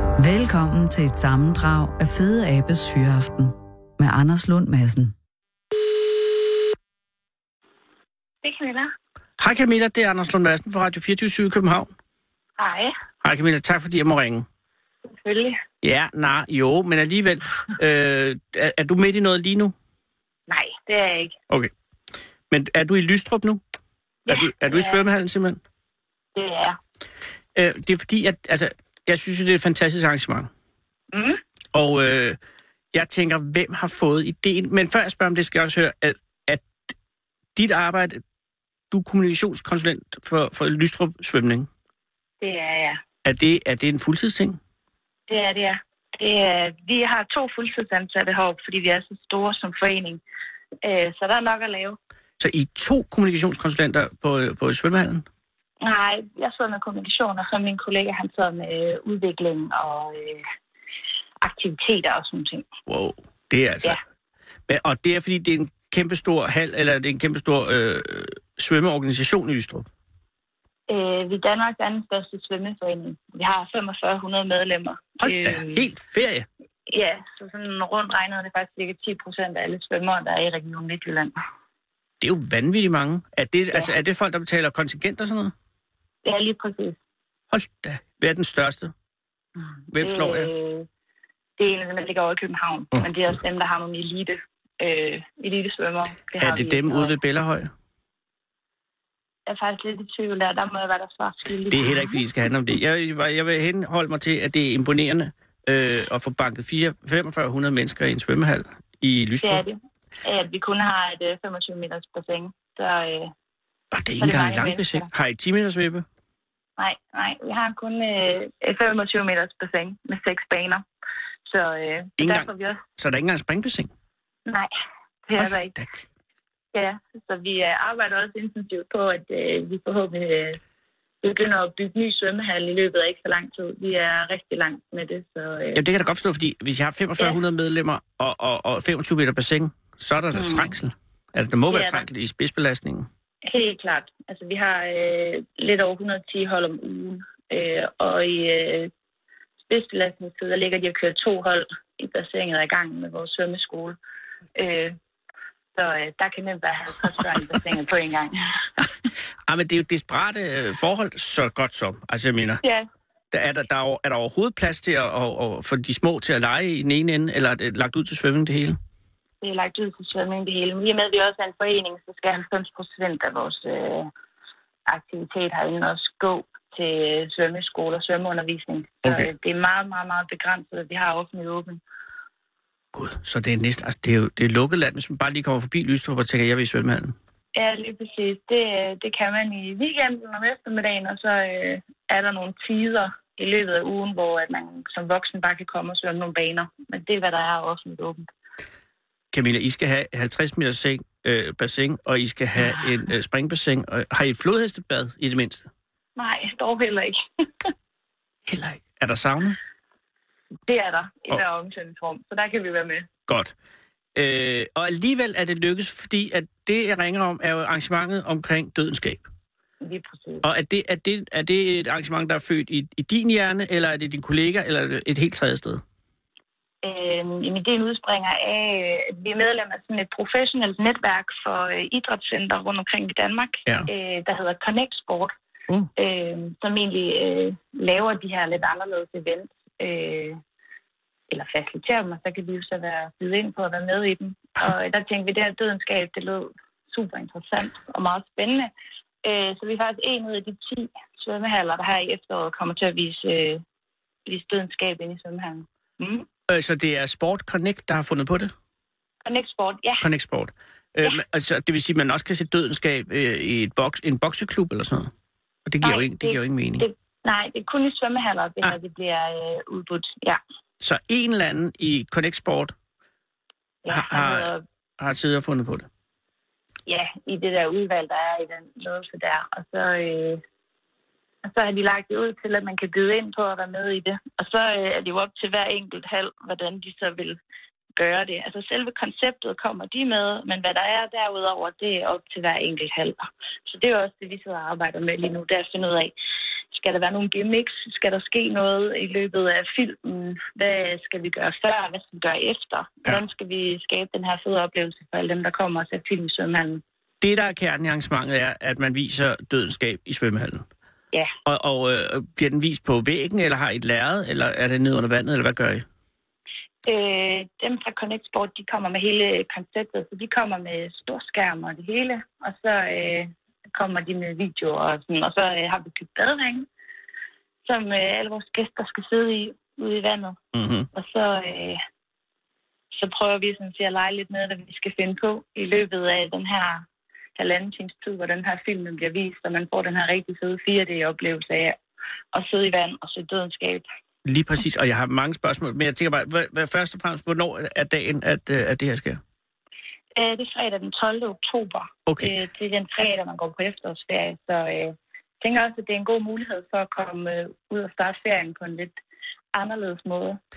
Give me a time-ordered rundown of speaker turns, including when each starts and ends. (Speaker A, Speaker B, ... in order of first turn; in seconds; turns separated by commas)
Speaker A: 0.2-5.1, Speaker B: 8.4-8.9, Speaker C: 9.4-11.9, Speaker B: 12.6-12.9, Speaker C: 13.2-14.4, Speaker B: 15.1-15.6, Speaker C: 15.8-19.7, Speaker B: 20.5-21.4, Speaker C: 22.5-23.6, Speaker B: 24.3-25.1, Speaker C: 24.3-25.6, Speaker B: 26.4-26.8, Speaker C: 27.6-30.5, Speaker B: 31.1-31.4, Speaker C: 31.7-32.4, Speaker C: 32.9-36.6, Speaker C: 37.5-38.2, Speaker C: 38.9-41.7, Speaker B: 42.4-43.0, Speaker C: 43.2-44.6, Speaker B: 45.3-50.2, Speaker B: 50.8-52.0, Speaker C: 52.4-55.3, Speaker B: 55.8-60.5, Speaker B: 61.4-62.7, Speaker C: 62.9-64.0, Speaker C: 64.7-69.9, Speaker B: 70.9-75.8, Speaker C: 75.2-76.5, Speaker B: 76.9-81.3, Speaker C: 82.2-85.5, Speaker B: 86.2-87.0, Speaker C: 87.5-88.9, Speaker C: 89.9-90.5, Speaker B: 90.0-90.9, Speaker B: 91.6-97.2, Speaker C: 93.0-93.3, Speaker C: 96.4-97.7, Speaker B: 99.5-102.2, Speaker C: 101.7-109.6, Speaker B: 109.4-113.3, Speaker C: 113.9-116.0, Speaker B: 114.2-115.1, Speaker B: 116.8-120.8, Speaker B: 121.5-122.8, Speaker C: 122.2-123.9, Speaker B: 125.3-125.8, Speaker C: 125.4-126.0, Speaker B: 126.7-130.6, Speaker B: 131.2-135.8, Speaker C: 135.8-143.1, Speaker B: 140.3-140.6, Speaker B: 141.7-142.0, Speaker B: 143.4-148.9, Speaker B: 149.7-154.0, Speaker B: 154.6-155.0, Speaker B: 155.8-158.4, Speaker C: 159.5-162.6, Speaker C: 163.3-168.8, Speaker B: 169.4-174.1, Speaker B: 174.9-181.8, Speaker C: 182.9-187.2, Speaker B: 187.6-198.3, Speaker C: 199.3-205.7, Speaker B: 206.2-207.7, Speaker C: 208.5-209.6, Speaker B: 210.7-213.1, Speaker C: 214.2-219.2, Speaker B: 219.8-220.5, Speaker C: 220.4-225.8, Speaker B: 226.8-235.3, Speaker B: 236.0-240.4, Speaker B: 241.3-248.7, Speaker B: 249.2-253.6, Speaker B: 254.3-256.3, Speaker C: 256.5-258.5, Speaker B: 259.2-260.1, Speaker C: 260.0-265.1, Speaker C: 265.7-266.9, Speaker B: 265.8-270.4, Speaker C: 270.8-272.7, Speaker B: 273.9-274.6, Speaker C: 273.9-274.5, Speaker C: 275.0-275.9, Speaker B: 276.9-280.4, Speaker B: 281.4-287.4, Speaker B: 288.0-296.1, Speaker B: 296.7-306.8, Speaker C: 307.2-310.6, Speaker C: 311.5-315.9, Speaker B: 316.9-326.7, Speaker B: 327.6-330.4, Speaker C: 330.5-330.9, Speaker B: 330.9-331.8, Speaker B: 332.9-341.8, Speaker B: 342.3-343.9, Speaker C: 344.2-349.2, Speaker B: 350.2-359.0, Speaker B: 359.5-360.4